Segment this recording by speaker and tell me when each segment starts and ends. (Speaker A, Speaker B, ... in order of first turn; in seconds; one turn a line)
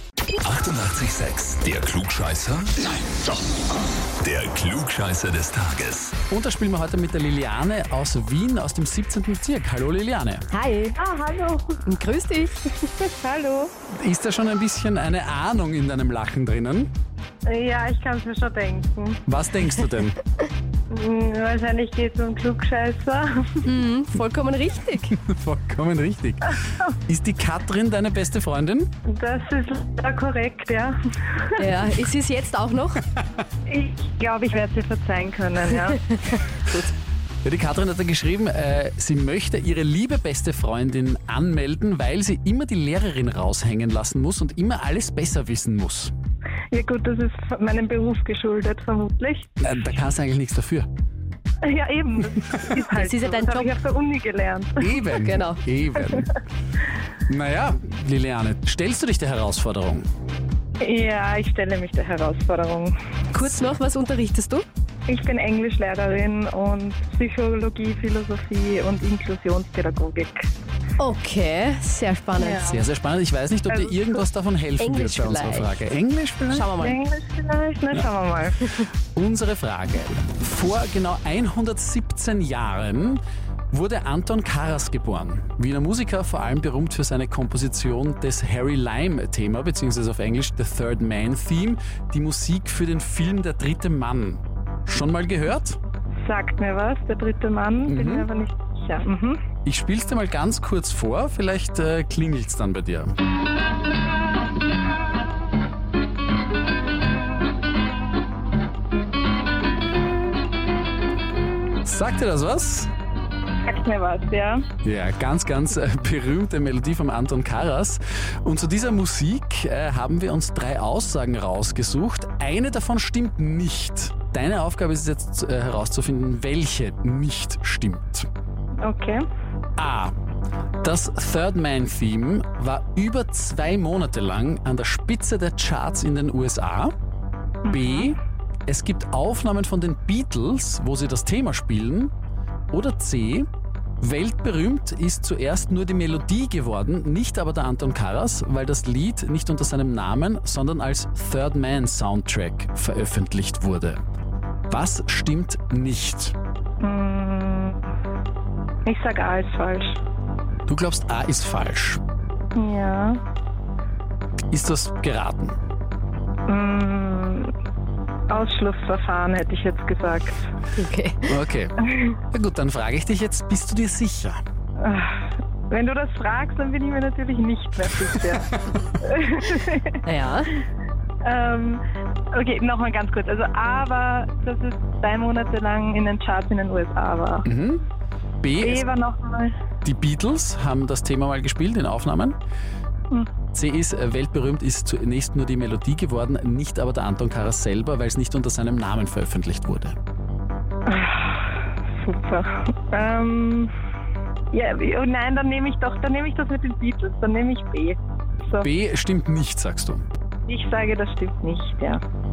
Speaker A: 0.4-2.8
Speaker A: 4.2-6.2
Speaker B: 6.3-10.4
Speaker C: 10.5-11.0
Speaker D: 10.9-11.8
Speaker C: 11.8-12.5
Speaker D: 13.0-13.7
Speaker B: 13.9-16.9
Speaker D: 17.4-19.2
Speaker B: 19.3-20.2
Speaker D: 20.9-23.6
Speaker C: 23.6-25.1
Speaker B: 25.1-28.9
Speaker D: 29.1-31.6
Speaker C: 31.6-33.0
Speaker D: 33.6-36.0
Speaker B: 37.4-46.1
Speaker D: 46.7-49.6
Speaker B: 49.6-50.9
Speaker D: 51.6-55.1
Speaker C: 52.9-53.7
Speaker B: 54.8-56.3
Speaker C: 55.1-55.6
Speaker B: 57.2-60.0
Speaker D: 60.8-62.9
Speaker C: 63.3-64.6
Speaker D: 65.1-70.5
Speaker C: 71.0-72.8
Speaker D: 72.4-72.8
Speaker B: 72.7-76.7
Speaker D: 73.7-74.1
Speaker C: 74.8-75.8
Speaker C: 76.5-77.0
Speaker D: 76.8-78.9
Speaker B: 79.1-83.2
Speaker B: 83.7-95.8
Speaker D: 96.2-99.4
Speaker B: 97.9-98.3
Speaker B: 99.6-103.1
Speaker B: 111.8-112.9
Speaker D: 113.7-114.7
Speaker B: 114.8-128.3
Speaker D: 128.8-129.2
Speaker B: 129.8-130.1
Speaker B: 130.8-136.9
Speaker D: 137.7-138.1
Speaker B: 137.7-138.2
Speaker B: 138.7-142.1
Speaker B: 142.7-143.4
Speaker B: 144.0-154.0
Speaker B: 154.7-156.3
Speaker D: 156.8-157.8
Speaker D: 158.8-160.0
Speaker B: 160.7-162.0
Speaker D: 162.6-163.2
Speaker B: 164.5-165.6
Speaker D: 166.5-167.5
Speaker D: 168.3-170.4
Speaker C: 170.8-171.4
Speaker B: 171.3-174.4
Speaker D: 174.8-179.9
Speaker C: 180.0-180.5
Speaker D: 181.2-181.8
Speaker D: 182.3-187.4
Speaker B: 187.4-187.8
Speaker B: 188.4-188.8
Speaker D: 188.6-189.5
Speaker B: 189.8-192.3
Speaker B: 193.5-199.9
Speaker D: 200.8-203.7
Speaker D: 204.5-208.7
Speaker B: 208.6-210.0
Speaker D: 210.5-212.0